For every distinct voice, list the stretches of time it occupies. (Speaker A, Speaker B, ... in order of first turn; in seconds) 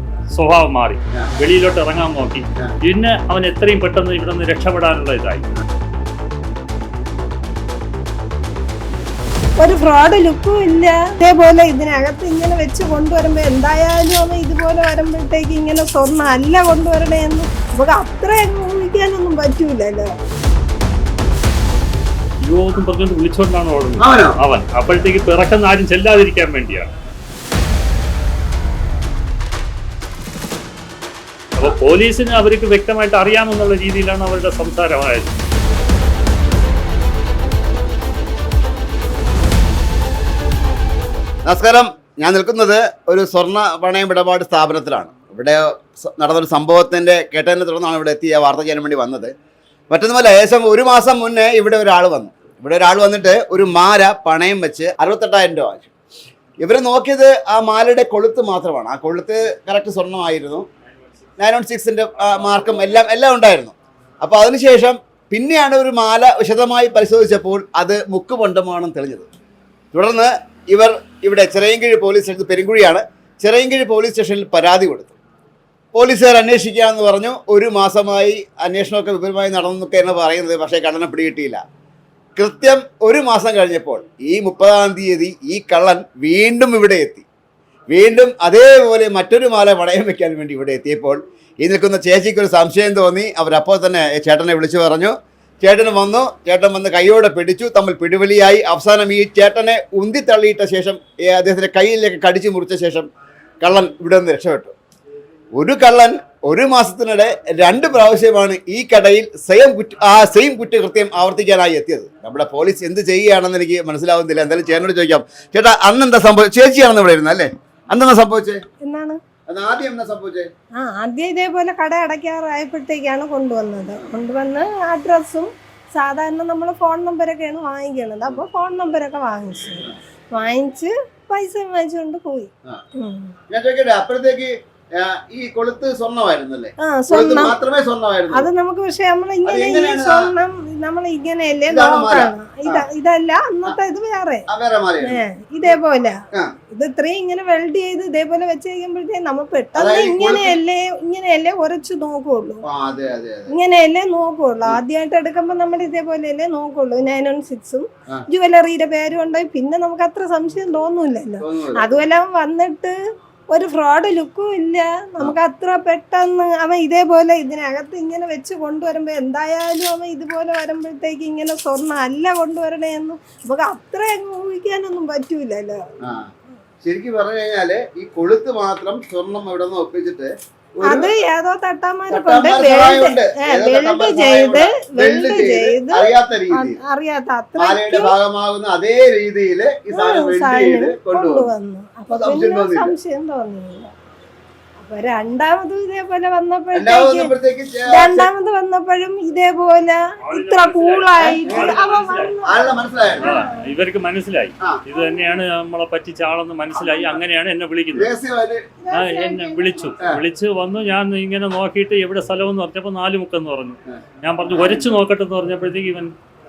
Speaker A: 0.3-5.4, 22.4-26.9, 31.6-35.3, 200.2-202.3, 203.2-208.1, 208.9-216.1
Speaker B: 9.6-20.1, 118.8-119.2, 120.8-133.3, 136.8-137.6, 138.3-144.5, 145.0-146.2, 146.7-152.7, 153.5-162.9, 163.5-175.8, 180.9-188.2, 189.9-193.9, 194.8-197.3, 197.9-203.7, 204.9-205.4, 206.8-207.2, 208.8-210.0
Speaker C: 24.0-24.4, 41.5-49.3, 49.9-55.9, 56.6-60.7, 61.4-69.3, 69.9-75.2, 75.9-81.6, 82.4-87.3, 87.9-103.1, 103.6-104.7, 105.6-118.6, 119.5-120.5, 133.5-138.5, 139.4-140.2, 141.7-142.8, 144.5-145.2, 149.8-150.6, 152.6-153.5, 161.4-161.9, 176.0-176.3, 176.8-181.1, 182.1-186.8, 187.6-191.5, 192.1-192.9, 196.7-198.3, 201.2-201.8, 202.4-203.3, 207.9-208.7